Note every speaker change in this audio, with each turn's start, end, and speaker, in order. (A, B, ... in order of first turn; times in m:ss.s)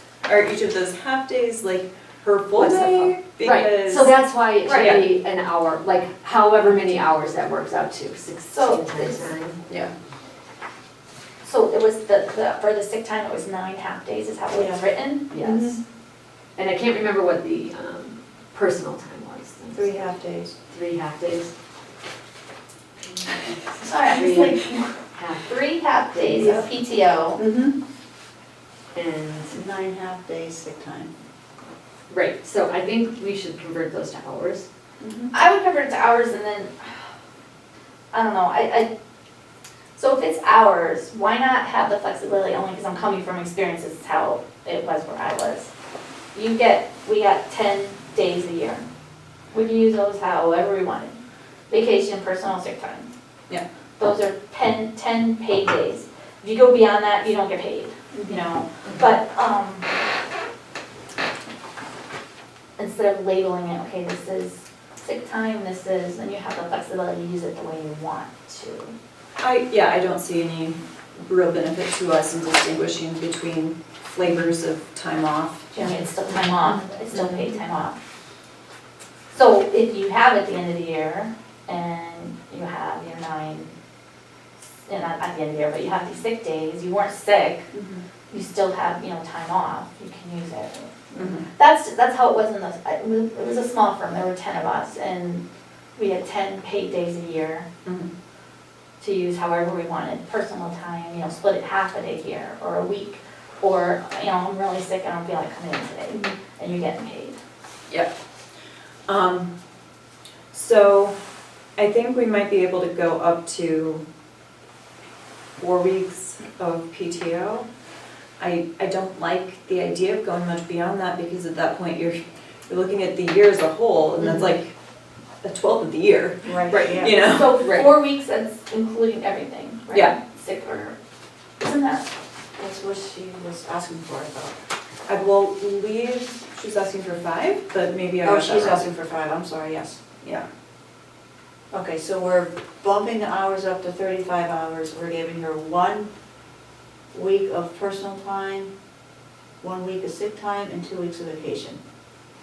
0:00.2-0:05.1 A
0:02.5-0:09.6 B
0:08.5-0:09.3 C
0:09.7-0:09.9 A
0:11.4-0:15.3 C
0:14.5-0:14.8 D
0:15.3-0:15.8 B
0:15.4-0:15.8 A
0:16.6-0:20.0 B
0:19.8-0:20.5 D
0:20.7-0:21.5 B
0:23.0-0:25.6 B
0:23.8-0:24.8 C
0:25.4-0:27.4 C
0:26.1-0:26.6 B
0:27.4-0:27.8 A
0:28.9-0:29.5 B
0:29.5-0:31.1 D
0:32.1-0:34.7 B
0:35.0-0:35.3 A
0:35.3-0:37.1 C
0:38.1-0:38.9 C
0:40.0-0:45.7 C
0:46.3-0:48.8 C
0:49.5-0:51.2 C
0:51.7-0:53.1 C
0:54.0-0:59.9 C
0:58.1-0:58.4 A
1:02.8-1:08.9 C
1:09.4-1:15.7 A
1:15.7-1:18.0 C
1:17.1-1:17.5 A
1:19.3-1:23.7 C
1:24.8-1:27.7 C
1:27.7-1:28.0 A
1:28.3-1:35.4 C
1:31.2-1:31.5 A
1:36.0-1:37.7 C
1:39.0-1:47.4 C
1:49.1-1:49.5 A
1:50.5-1:51.2 A
1:51.8-1:54.1 A
1:55.6-1:57.7 A
1:58.4-2:04.8 A
2:05.4-2:07.9 A
2:06.5-2:07.2 D
2:07.2-2:11.0 C
2:09.9-2:10.2 A
2:11.6-2:12.1 C
2:12.6-2:14.6 D
2:15.1-2:18.8 A
2:18.2-2:20.0 D
2:21.7-2:26.1 D
2:27.1-2:28.7 D
2:29.6-2:31.8 D